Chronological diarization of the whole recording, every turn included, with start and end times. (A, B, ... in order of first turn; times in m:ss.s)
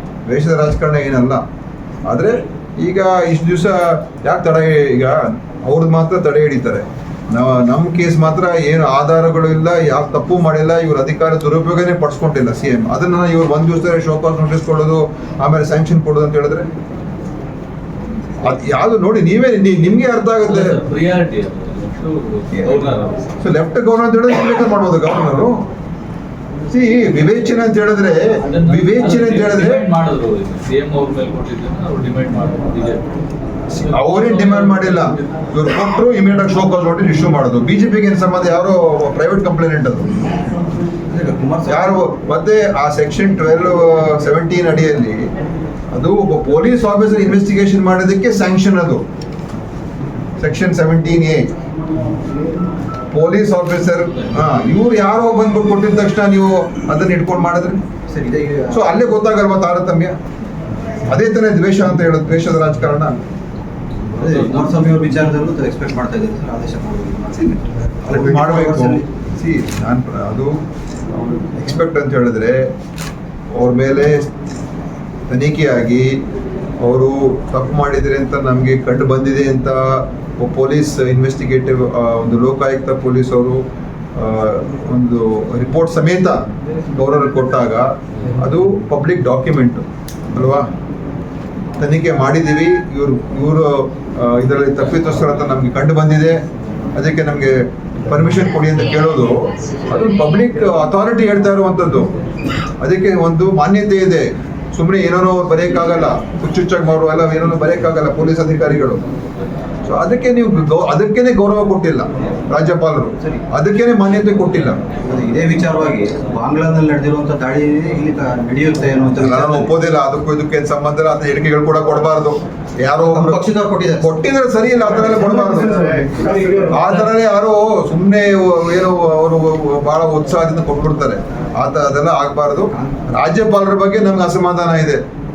0:00.3-0:01.4 A
0:02.1-0:16.7 A
0:18.4-0:20.8 A
0:20.5-0:23.2 B
0:23.4-0:25.6 A
0:26.7-0:29.8 A
0:28.4-0:33.1 B
0:33.7-0:40.1 A
0:33.8-0:35.3 B
0:41.1-0:42.1 C
0:41.7-0:45.3 A
0:45.9-0:49.0 A
0:50.4-0:51.5 A
0:53.1-0:57.8 A
0:58.1-0:58.8 C
0:58.7-1:00.2 A
1:01.1-1:03.2 A
1:04.2-1:09.1 C
1:08.0-1:10.6 A
1:11.2-1:12.7 A
1:13.5-1:14.3 A
1:15.3-1:16.2 A
1:16.8-1:23.6 A
1:24.2-1:30.7 A
1:31.8-1:36.4 A
1:37.0-1:42.1 A
1:42.8-1:49.0 A
1:49.8-1:54.8 A
1:53.2-1:53.4 C
1:55.0-1:59.7 C
1:59.2-2:06.1 A
2:03.0-2:04.1 C
2:05.1-2:06.7 C
2:06.7-2:15.0 A
2:12.7-2:13.1 C